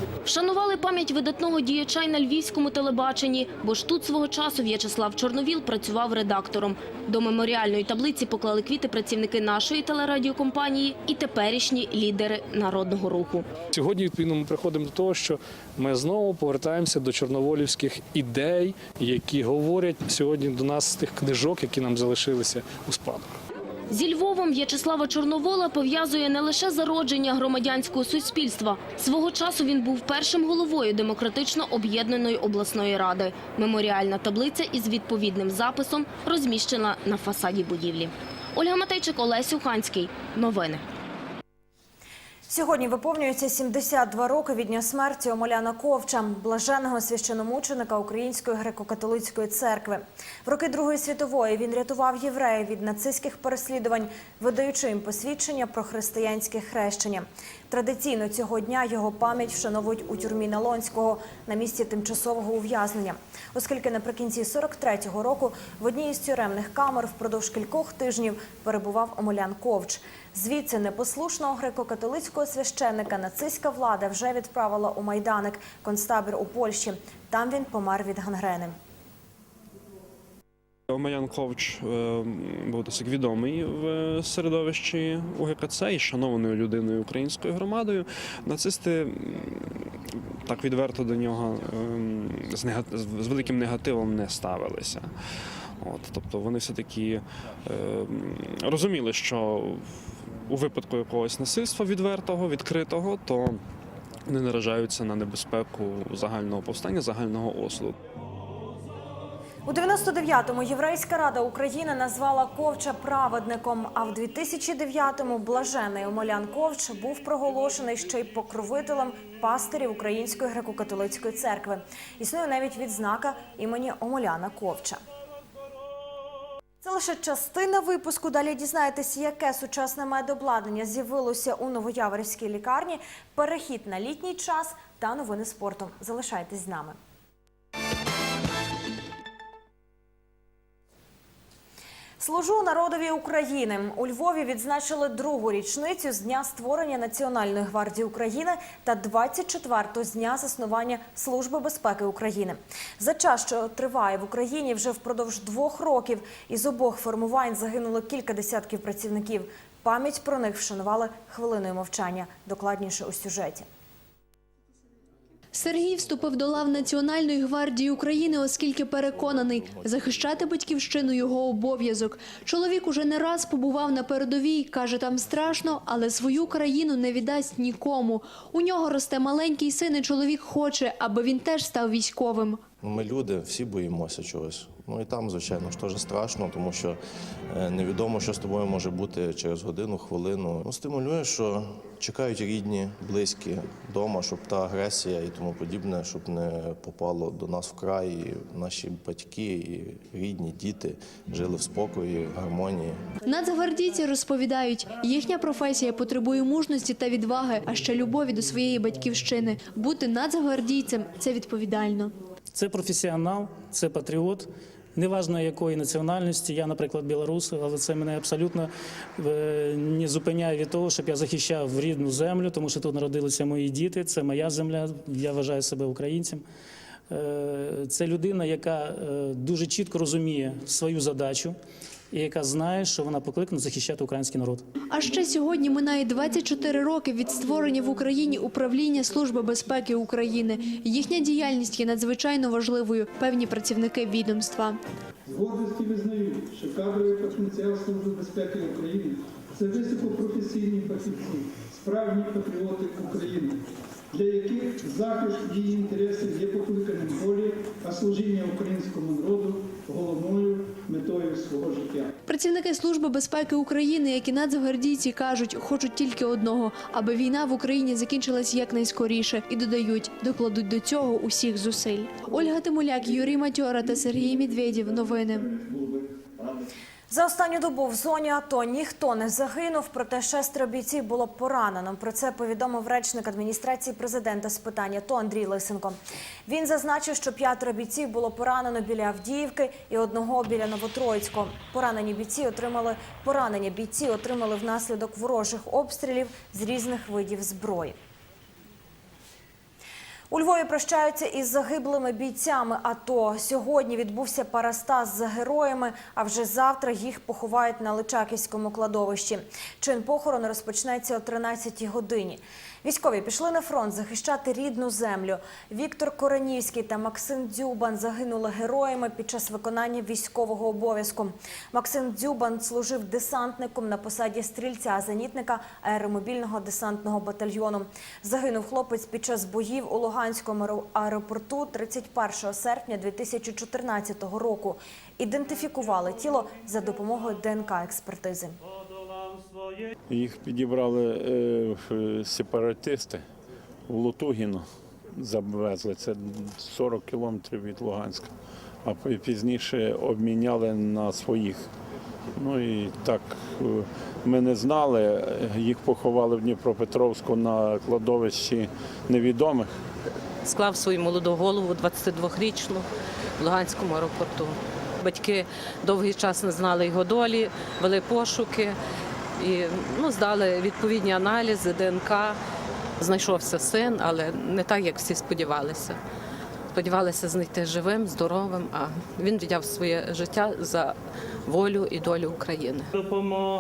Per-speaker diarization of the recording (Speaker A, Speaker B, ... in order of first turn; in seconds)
Speaker A: 0.3-13.5, 23.9-40.8
Speaker B: 13.7-23.2
Speaker C: 42.5-78.8, 109.7-125.0, 126.8-137.0, 142.2-163.7, 277.1-298.0, 300.3-338.6
Speaker D: 80.9-103.6, 104.3-108.0
Speaker E: 165.5-182.6, 203.2-212.1, 234.9-244.8, 262.3-275.6
Speaker F: 182.8-203.1
Speaker G: 212.5-226.4, 227.1-231.6, 232.1-234.6
Speaker H: 245.3-262.1
Speaker I: 340.1-343.2, 343.9-348.3, 348.9-351.7, 352.4-359.7
Speaker J: 360.4-362.9, 363.4-368.8, 369.4-372.4, 373.0-376.0, 376.7-382.9